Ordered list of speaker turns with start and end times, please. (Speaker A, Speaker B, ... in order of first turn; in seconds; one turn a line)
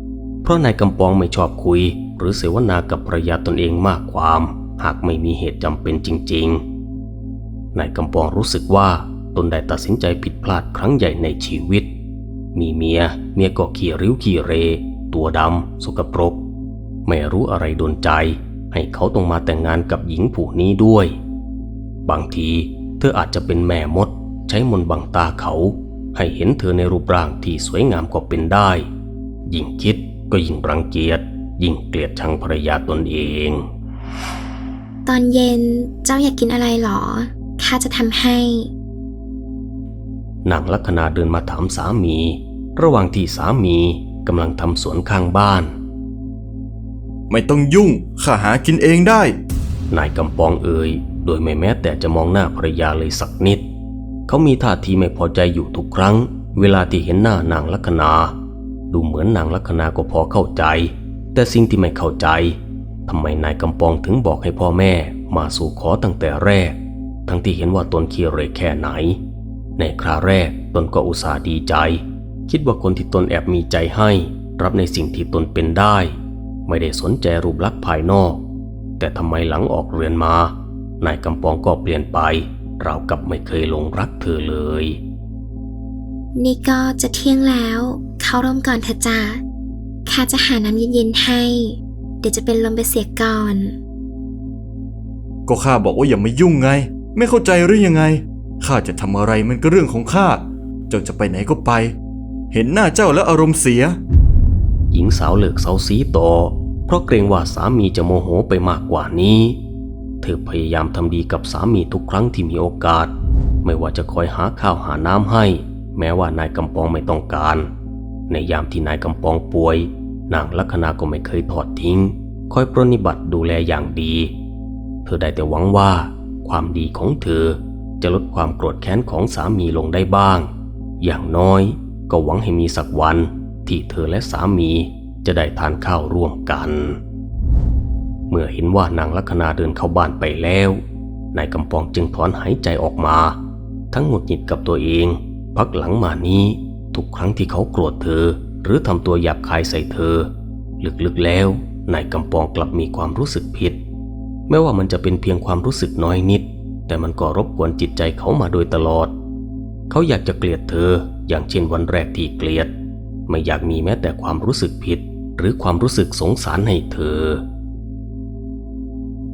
Speaker A: 0.4-6.6
Speaker A: 7.7-11.9
Speaker A: 12.5-16.4
Speaker A: 17.0-21.2
Speaker A: 22.1-28.9
Speaker A: 29.4-33.6
Speaker B: 35.0-38.7
Speaker A: 40.4-45.7
Speaker C: 47.3-49.4
Speaker A: 49.9-53.6
Speaker A: 54.3-58.3
Speaker A: 58.9-69.2
Speaker A: 69.8-78.4
Speaker A: 79.0-85.0
Speaker B: 86.3-89.4
Speaker B: 90.0-93.8
Speaker C: 95.5-101.9
Speaker C: 102.5-104.0
Speaker A: 104.9-109.6
Speaker A: 110.2-113.1
Speaker A: 113.6-117.7
Speaker A: 118.3-124.3
Speaker A: 125.0-130.5
Speaker A: 131.0-137.0
Speaker A: 138.3-140.8
Speaker A: 141.3-143.4
Speaker A: 143.9-153.8
Speaker A: 154.5-159.1
Speaker A: 159.9-162.7
Speaker A: 163.3-167.4